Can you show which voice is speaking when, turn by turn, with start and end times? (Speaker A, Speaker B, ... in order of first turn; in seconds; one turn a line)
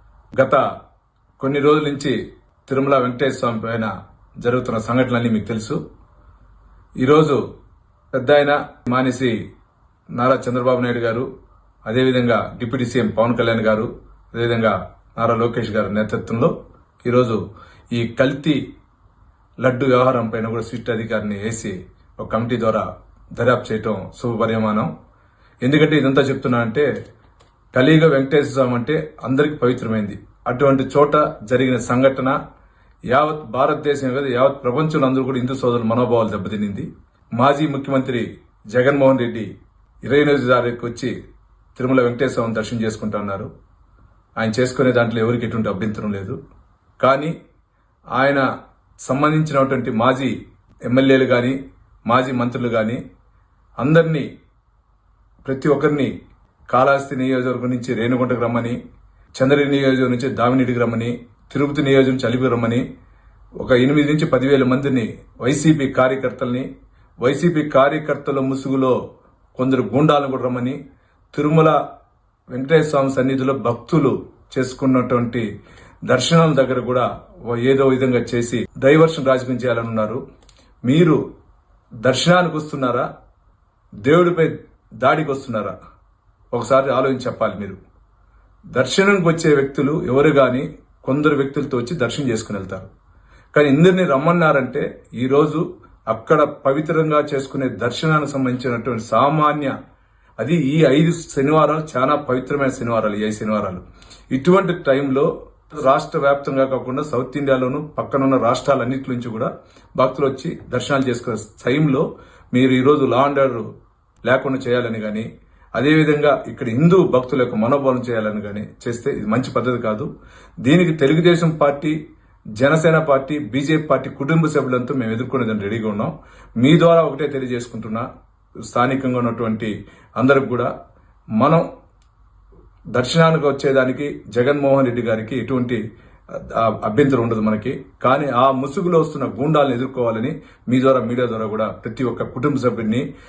Speaker A: 0.3-0.6
Speaker A: 1.4-2.1
Speaker A: 2.7-3.9
Speaker A: 4.4-5.8
Speaker A: 7.0-7.4
Speaker A: 8.1-9.3
Speaker A: 10.1-11.3
Speaker A: 11.9-16.5
Speaker A: 17.0-17.4
Speaker A: 17.9-18.6
Speaker A: 19.6-24.9
Speaker A: 25.6-26.9
Speaker A: 27.7-32.3
Speaker A: 33.1-39.5
Speaker A: 40.0-41.1
Speaker A: 41.8-43.5
Speaker A: 44.4-46.4
Speaker A: 47.0-47.3
Speaker A: 48.1-48.4
Speaker A: 49.0-50.3
Speaker A: 50.9-51.5
Speaker A: 52.1-53.0
Speaker A: 53.8-54.2
Speaker A: 55.4-56.1
Speaker A: 56.7-58.8
Speaker A: 59.3-62.8
Speaker A: 63.6-66.7
Speaker A: 67.2-69.0
Speaker A: 69.5-70.8
Speaker A: 71.3-71.8
Speaker A: 72.5-75.4
Speaker A: 76.1-80.2
Speaker A: 80.8-81.2
Speaker A: 82.0-83.0
Speaker A: 84.0-84.5
Speaker A: 85.0-85.7
Speaker A: 86.5-87.8
Speaker A: 88.7-92.9
Speaker A: 93.5-99.7
Speaker A: 100.4-113.7
Speaker A: 114.2-120.1
Speaker A: 120.6-121.9
Speaker A: 122.6-128.1
Speaker A: 128.7-130.7
Speaker A: 131.4-131.6
Speaker A: 132.9-135.8
Speaker A: 136.4-143.1